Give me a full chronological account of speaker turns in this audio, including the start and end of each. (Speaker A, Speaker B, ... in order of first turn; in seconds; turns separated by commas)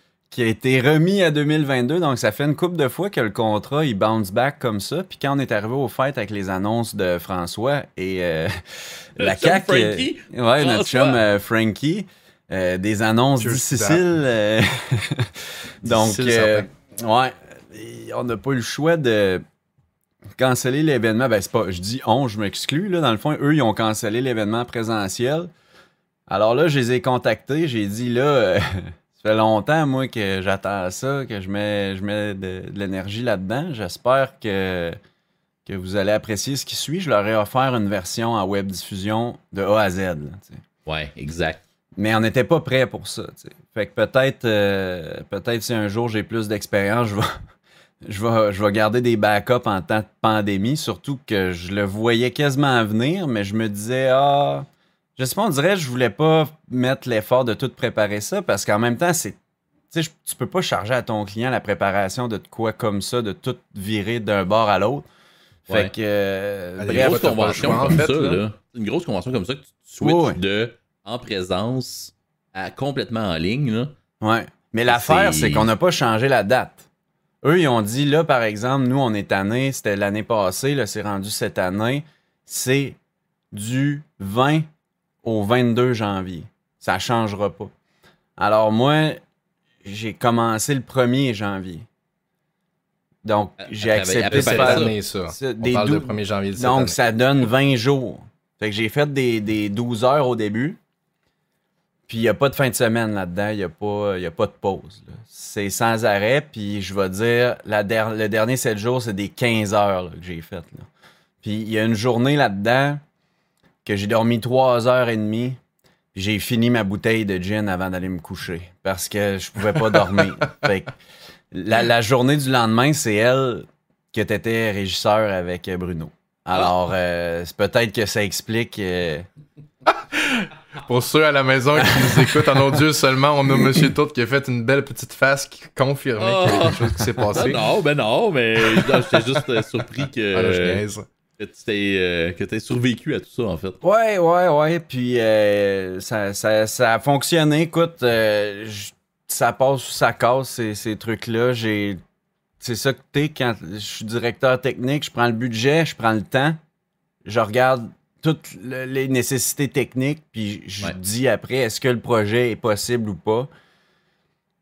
Speaker A: 0.3-15.3, Speaker B: 9.2-11.2, Speaker C: 13.4-14.0, Speaker A: 15.8-19.4, Speaker C: 15.8-16.7, Speaker A: 20.4-25.5, Speaker A: 26.3-35.0, Speaker A: 35.6-40.6, Speaker B: 40.9-41.6, Speaker A: 42.0-47.3, Speaker A: 48.0-59.4, Speaker A: 59.9-65.0, Speaker A: 65.7-68.0, Speaker C: 66.8-68.4, Speaker B: 66.9-73.9, Speaker A: 70.0-70.4, Speaker A: 74.2-76.8, Speaker B: 74.9-75.7, Speaker A: 77.4-83.0, Speaker A: 83.5-84.7, Speaker A: 85.2-87.7, Speaker A: 88.4-89.2, Speaker A: 89.8-91.8, Speaker A: 93.2-100.8, Speaker B: 93.6-95.0, Speaker C: 94.3-97.0, Speaker A: 102.1-110.9, Speaker A: 111.4-113.0, Speaker A: 113.8-115.6, Speaker A: 116.1-121.0, Speaker C: 119.7-120.4, Speaker A: 121.5-129.3, Speaker C: 129.9-137.6, Speaker A: 131.8-132.3, Speaker B: 136.2-140.8, Speaker C: 138.6-139.2, Speaker C: 140.3-141.1, Speaker B: 141.4-143.8, Speaker A: 143.8-152.0, Speaker A: 152.6-156.6, Speaker A: 157.2-163.5